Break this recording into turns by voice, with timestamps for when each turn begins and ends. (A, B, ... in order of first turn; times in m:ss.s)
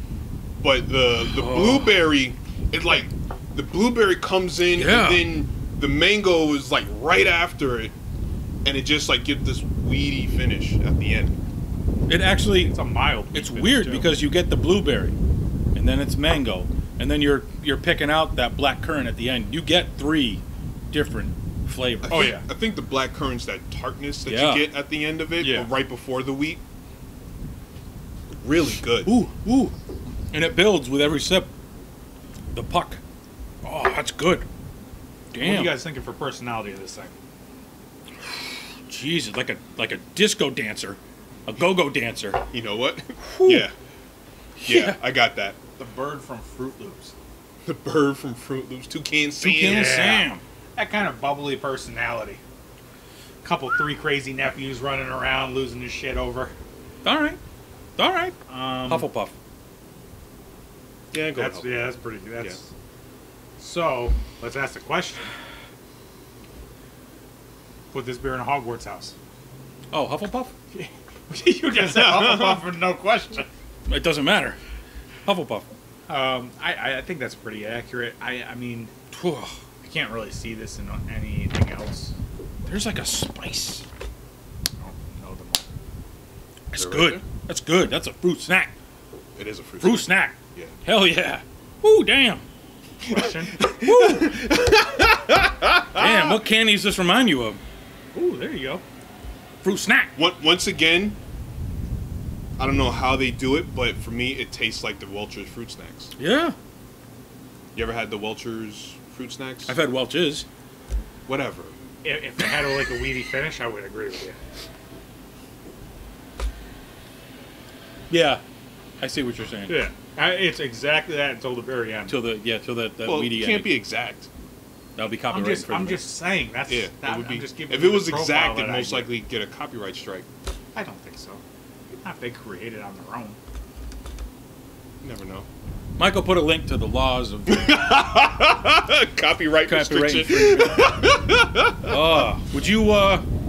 0:00.6-0:07.9 A
0:01.2-0:02.1 B
0:04.7-0:05.3 B
0:08.6-0:11.4 A
0:12.1-0:12.7 B
0:12.6-0:14.1 C
0:13.3-0:15.1 B
0:15.8-0:22.4 B
0:22.0-0:26.6 A
0:22.1-0:22.4 C
0:24.3-0:24.7 B
0:25.4-0:25.7 C
0:28.3-0:29.1 A
0:29.0-0:29.8 B
0:30.3-0:31.5 B
0:32.5-0:33.0 B
0:33.6-0:34.5 B
0:35.3-0:35.8 B
0:35.4-0:37.1 C
0:38.8-0:42.4 B
0:42.5-0:43.8 A
0:43.4-0:43.7 B
0:44.6-0:45.6 A
0:44.6-0:45.0 B
0:45.8-0:47.1 C
0:47.6-0:50.1 A
0:49.4-0:50.4 B
0:49.6-0:52.4 C
0:53.4-0:56.5 C
0:57.0-0:57.4 B
0:58.0-0:58.4 B
0:58.5-0:59.1 C
0:58.9-0:59.3 B
1:01.1-1:02.6 A
1:01.3-1:02.7 C
1:03.6-1:05.3 C
1:07.9-1:09.2 C
1:09.9-1:10.5 B
1:10.7-1:13.5 C
1:11.8-1:12.6 A
1:13.9-1:14.6 B
1:15.2-1:15.7 B
1:16.1-1:18.9 C
1:19.1-1:19.6 B
1:19.8-1:22.2 C
1:22.7-1:23.8 B
1:24.8-1:25.7 C
1:26.7-1:28.7 B
1:26.7-1:27.2 A
1:29.4-1:30.7 A
1:29.8-1:32.4 B
1:33.0-1:33.6 C
1:33.1-1:36.4 A
1:33.8-1:34.4 B
1:35.9-1:37.6 B
1:38.1-1:38.8 C
1:39.6-1:40.1 B
1:40.2-1:41.2 A
1:42.6-1:46.1 A
1:46.2-1:46.6 B
1:47.8-1:49.8 A
1:49.7-1:50.5 B
1:51.3-1:51.8 A
1:52.0-1:54.4 C
1:58.1-1:58.4 B
1:59.0-1:59.8 B
1:59.7-2:02.2 C
2:02.1-2:03.8 B
2:03.0-2:04.3 A
2:05.0-2:06.0 B
2:05.3-2:09.1 C
2:06.7-2:10.3 A
2:10.7-2:13.4 C
2:15.0-2:15.5 A
2:16.0-2:17.9 B
2:17.5-2:22.0 A
2:19.6-2:21.0 B
2:21.8-2:23.2 B